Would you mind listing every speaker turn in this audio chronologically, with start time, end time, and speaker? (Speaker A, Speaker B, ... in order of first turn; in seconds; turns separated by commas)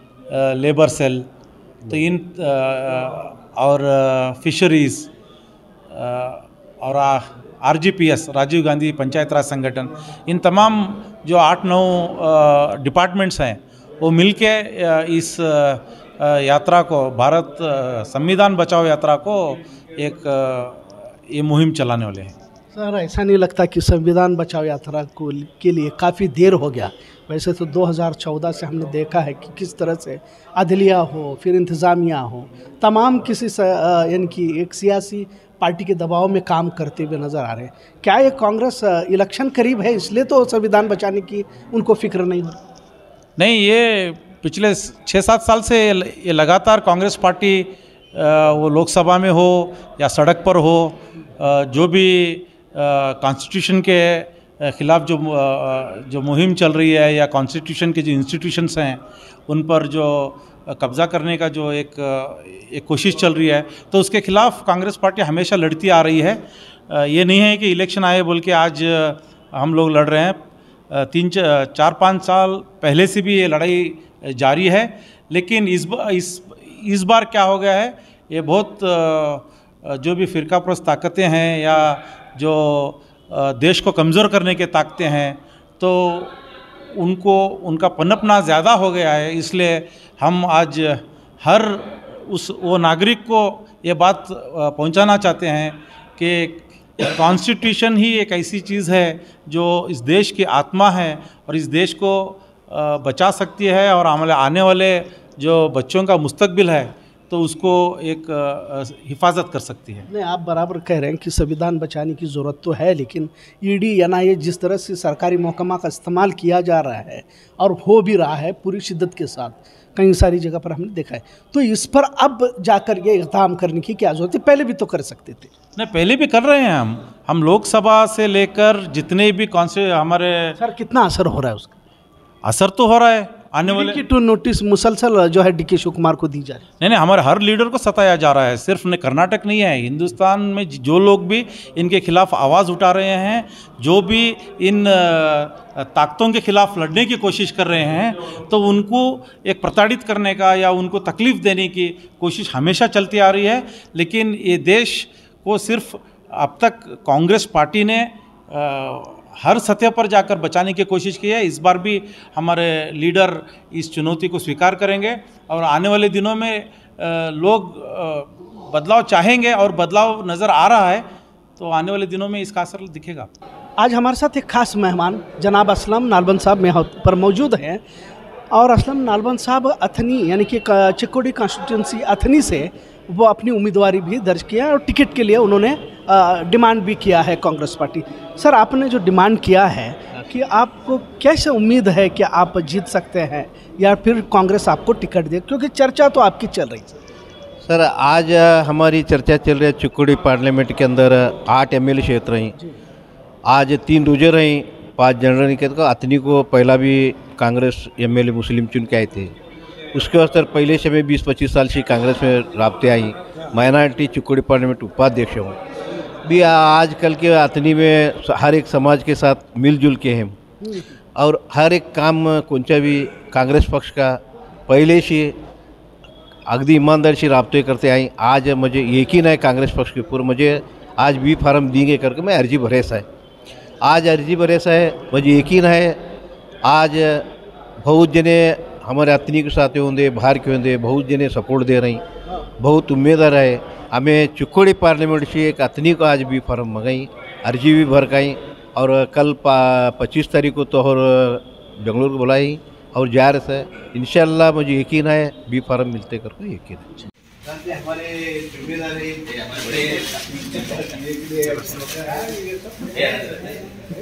Speaker A: 0.3-1.3, Speaker A: 1.9-5.1, Speaker A: 5.9-22.4, Speaker B: 22.7-42.6, Speaker A: 43.4-70.4, Speaker A: 70.9-86.4, Speaker A: 87.0-110.1, Speaker B: 110.1-125.5, Speaker A: 125.8-130.5, Speaker B: 130.6-131.8, Speaker A: 132.4-134.0, Speaker B: 133.6-136.6, Speaker A: 136.8-171.1, Speaker A: 171.6-173.3, Speaker B: 173.8-177.8, Speaker B: 178.5-196.9, Speaker C: 197.6-202.5, Speaker C: 203.5-209.3, Speaker C: 209.9-215.6, Speaker C: 216.2-220.4, Speaker C: 221.2-225.3, Speaker C: 226.5-233.1, Speaker C: 233.8-236.0, Speaker C: 236.6-237.3, Speaker C: 237.8-242.0, Speaker C: 242.6-263.3